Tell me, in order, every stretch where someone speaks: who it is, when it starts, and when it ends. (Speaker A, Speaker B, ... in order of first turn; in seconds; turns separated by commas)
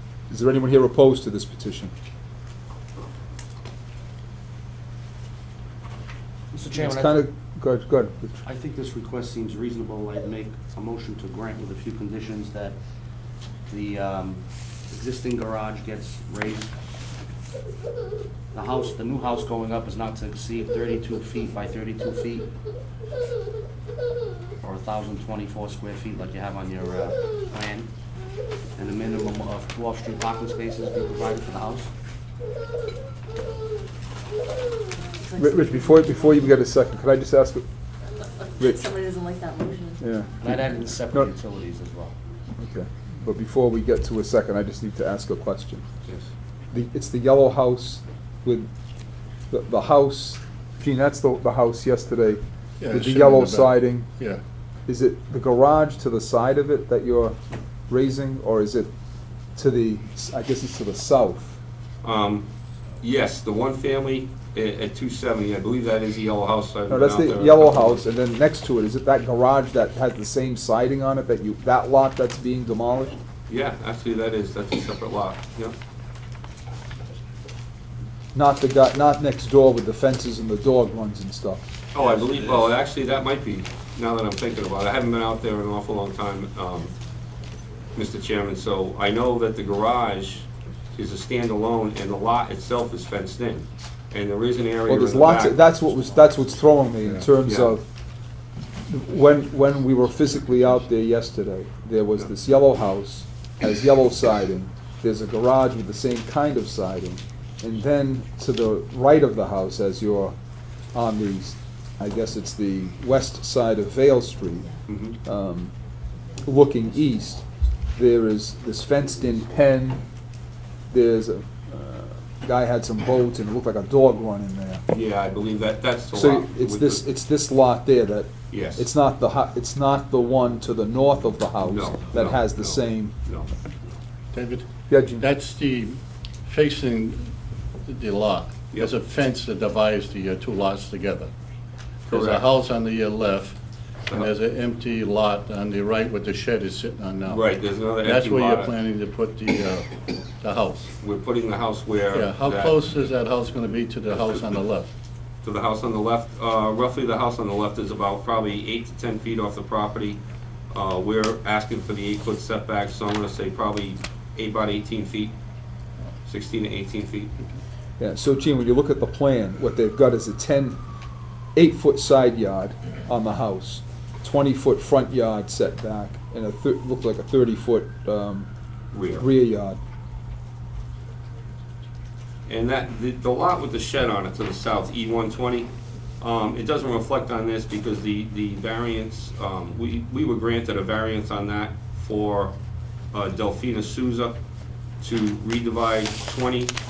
Speaker A: 0.3-1.9, Speaker B: 6.5-7.2, Speaker A: 6.7-8.4, Speaker B: 8.4-16.8, Speaker B: 18.5-22.5, Speaker B: 24.6-27.9, Speaker B: 28.8-31.9, Speaker C: 35.1-36.5, Speaker A: 35.4-37.6, Speaker C: 38.2-40.1, Speaker A: 40.0-41.3, Speaker B: 40.4-42.2, Speaker A: 42.6-45.9, Speaker A: 46.7-48.7, Speaker A: 49.5-54.1, Speaker D: 52.8-54.4, Speaker A: 54.9-57.4, Speaker A: 57.9-58.9, Speaker A: 59.6-61.6, Speaker E: 62.0-62.5, Speaker E: 63.0-68.0, Speaker A: 66.9-73.1, Speaker E: 73.5-75.8, Speaker A: 78.3-81.7, Speaker E: 81.9-86.9, Speaker E: 88.0-95.6, Speaker A: 94.9-97.8, Speaker E: 97.4-97.7, Speaker A: 98.9-110.4, Speaker A: 110.9-115.8, Speaker E: 114.9-115.2, Speaker A: 116.5-117.4, Speaker A: 118.0-120.0, Speaker A: 120.9-124.8, Speaker E: 124.9-127.0, Speaker A: 126.1-133.2, Speaker E: 128.5-128.9, Speaker E: 131.6-133.5, Speaker D: 134.3-137.3, Speaker A: 134.9-135.3, Speaker D: 137.8-141.3, Speaker D: 142.1-147.5, Speaker E: 142.1-142.4, Speaker E: 147.3-148.7, Speaker D: 148.0-150.9, Speaker E: 151.0-152.8, Speaker D: 152.1-154.9, Speaker E: 155.4-160.2, Speaker E: 160.7-165.4, Speaker E: 166.3-167.3, Speaker A: 168.0-170.8, Speaker A: 171.6-178.5, Speaker E: 178.9-179.3, Speaker A: 179.2-179.8, Speaker E: 182.5-192.6, Speaker E: 193.1-194.4, Speaker E: 195.0-196.8